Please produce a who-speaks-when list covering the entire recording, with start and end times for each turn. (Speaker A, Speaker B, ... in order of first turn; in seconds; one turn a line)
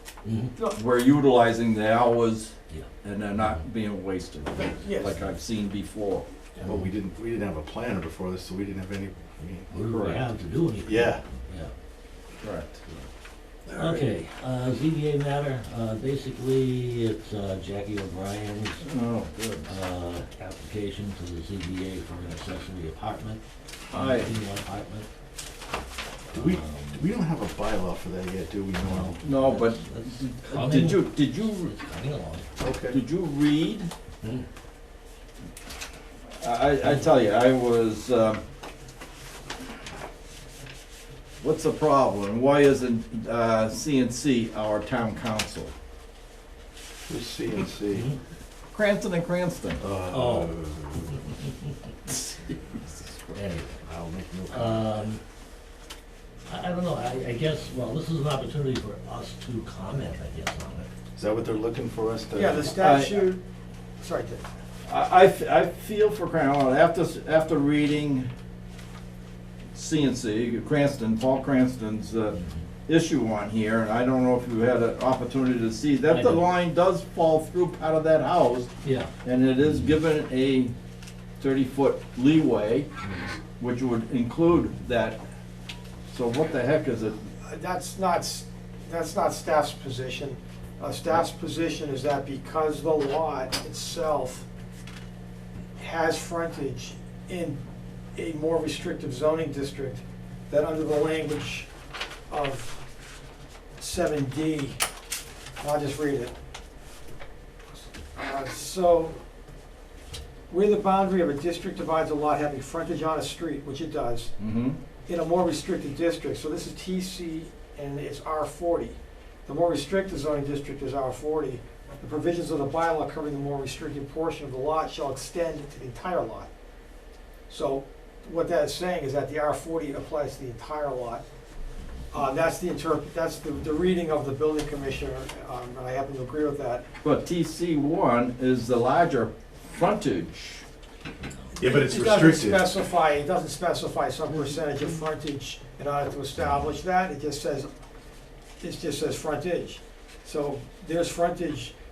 Speaker A: 0.2-0.6
Speaker B: 0.7-6.7
Speaker C: 4.6-5.2
Speaker D: 6.6-9.7
Speaker A: 9.7-11.7
Speaker B: 9.8-10.2
Speaker D: 10.8-11.2
Speaker B: 12.4-12.8
Speaker D: 13.7-14.0
Speaker A: 13.7-18.8
Speaker B: 18.8-19.7
Speaker A: 19.6-25.1
Speaker B: 23.9-24.3
Speaker A: 26.3-27.1
Speaker D: 26.3-29.2
Speaker A: 28.8-32.5
Speaker B: 29.2-31.7
Speaker D: 32.6-33.0
Speaker B: 32.9-33.9
Speaker B: 36.4-38.4
Speaker B: 41.4-45.7
Speaker D: 47.1-48.1
Speaker A: 47.9-48.2
Speaker B: 48.7-49.8
Speaker D: 49.8-51.2
Speaker A: 50.1-50.5
Speaker B: 52.6-53.3
Speaker A: 53.3-53.8
Speaker D: 53.8-54.9
Speaker A: 54.5-55.2
Speaker A: 56.5-60.9
Speaker D: 61.2-62.8
Speaker C: 62.4-63.4
Speaker B: 62.8-63.4
Speaker C: 64.0-64.5
Speaker B: 64.9-68.3
Speaker B: 69.7-78.7
Speaker A: 76.1-76.5
Speaker A: 78.8-79.9
Speaker B: 79.2-80.7
Speaker B: 81.4-82.9
Speaker A: 83.0-83.3
Speaker B: 83.6-85.2
Speaker B: 86.1-87.2
Speaker C: 87.5-94.5
Speaker C: 95.8-97.6
Speaker C: 98.2-101.7
Speaker C: 102.3-102.8
Speaker C: 103.8-104.8
Speaker C: 105.6-106.3
Speaker C: 108.2-109.2
Speaker C: 110.5-114.3
Speaker B: 114.4-114.8
Speaker C: 115.1-126.5
Speaker C: 127.5-131.2
Speaker C: 132.1-136.8
Speaker B: 137.0-140.7
Speaker C: 141.6-147.7
Speaker D: 141.6-142.7
Speaker C: 148.6-151.7